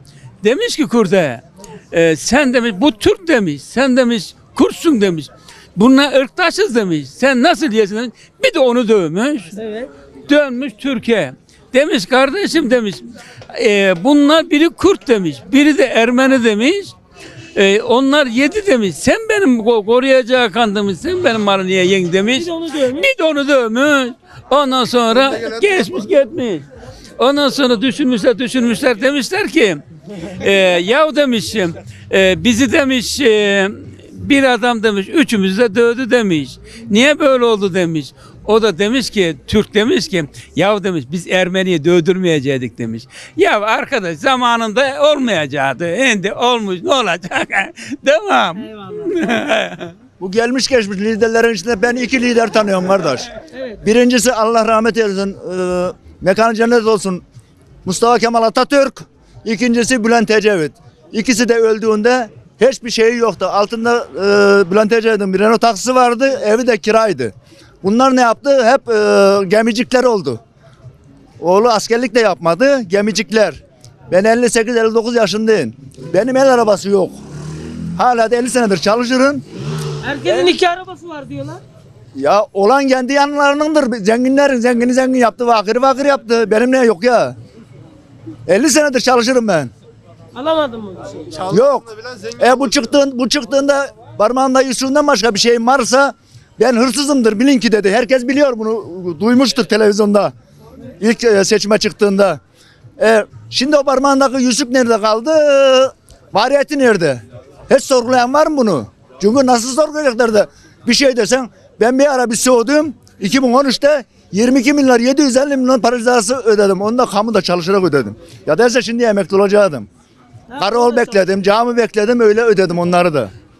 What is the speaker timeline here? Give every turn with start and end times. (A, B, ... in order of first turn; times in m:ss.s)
0:00.4-0:09.6 A
0:09.6-0:09.9 B
0:10.3-0:16.9 A
0:17.6-0:26.7 A
0:22.3-0:23.1 B
0:27.2-0:29.8 A
0:30.4-0:49.9 A
0:48.6-0:49.2 B
0:50.2-0:53.3 C
0:53.5-0:53.8 B
0:53.8-0:57.2 C
0:57.8-1:10.4 C
1:11.4-1:13.6 C
1:14.1-1:17.2 C
1:18.0-1:19.4 C
1:20.0-1:21.6 B
1:22.2-1:27.4 C
1:28.5-1:29.7 C
1:30.3-1:31.5 B
1:31.5-1:40.3 C
1:41.0-1:42.4 C
1:43.0-1:59.9 C
2:00.5-2:01.3 B
2:00.6-2:03.3 C